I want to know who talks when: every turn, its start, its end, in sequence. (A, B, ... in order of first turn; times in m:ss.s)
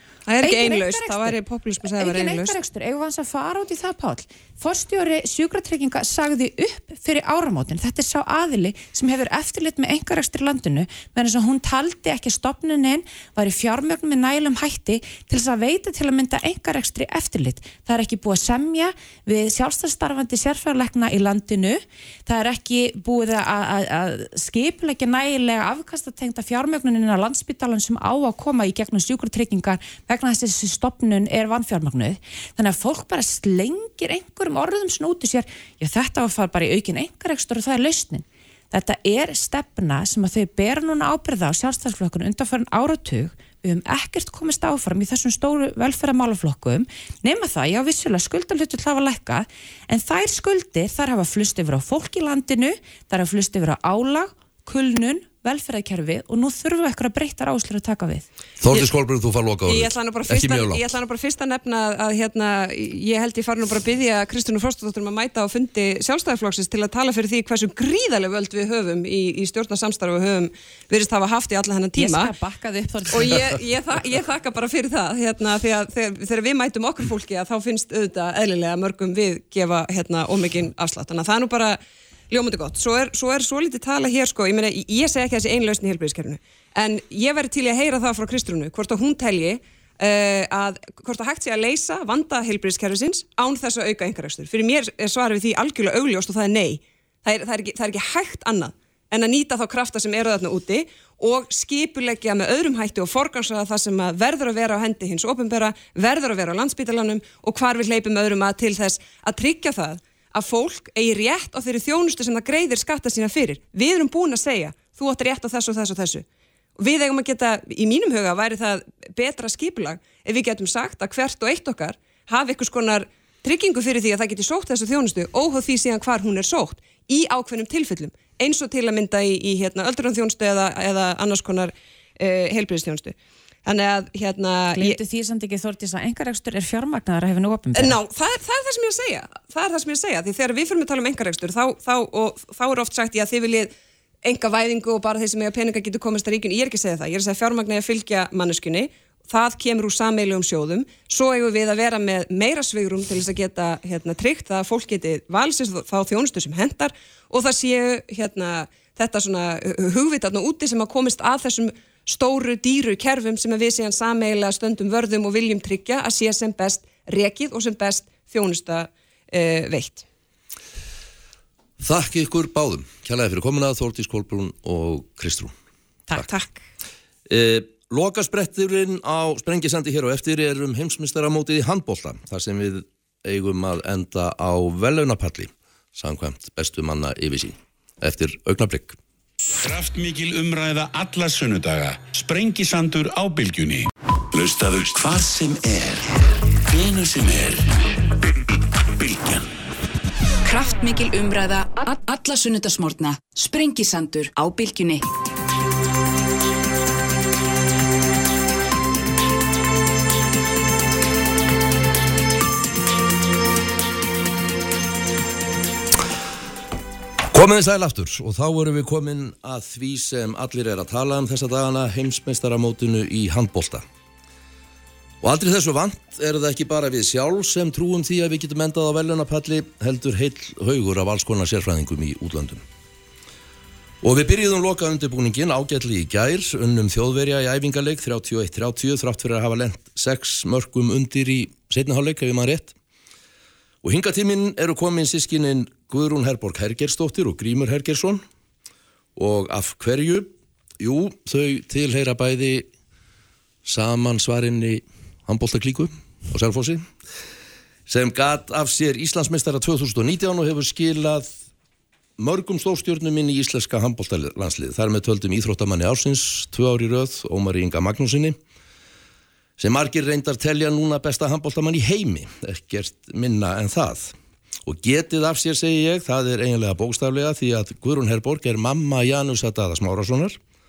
0:00.3-0:02.6 A
0:00.4-0:01.3 B
0:01.9-0:58.3 B
0:58.6-1:00.9 C
0:59.7-1:12.3 A
1:12.0-1:13.6 B
1:13.1-1:21.8 A
1:22.3-1:56.3 A
1:56.8-2:15.0 A
2:14.8-2:18.0 B
2:17.7-2:23.7 A
2:24.2-2:50.0 A
2:51.8-2:55.5 C
2:57.3-3:09.0 C
3:09.6-3:18.0 D
3:18.8-3:19.5 D
3:20.4-3:25.0 E
3:37.3-3:43.8 C
3:45.2-3:52.6 C
3:54.0-4:02.8 C
4:03.8-4:08.2 C
4:09.2-4:12.7 C
4:13.6-4:16.9 C
4:17.9-4:21.3 C
4:22.2-4:28.4 C
4:29.6-4:34.2 C
4:34.7-4:40.4 C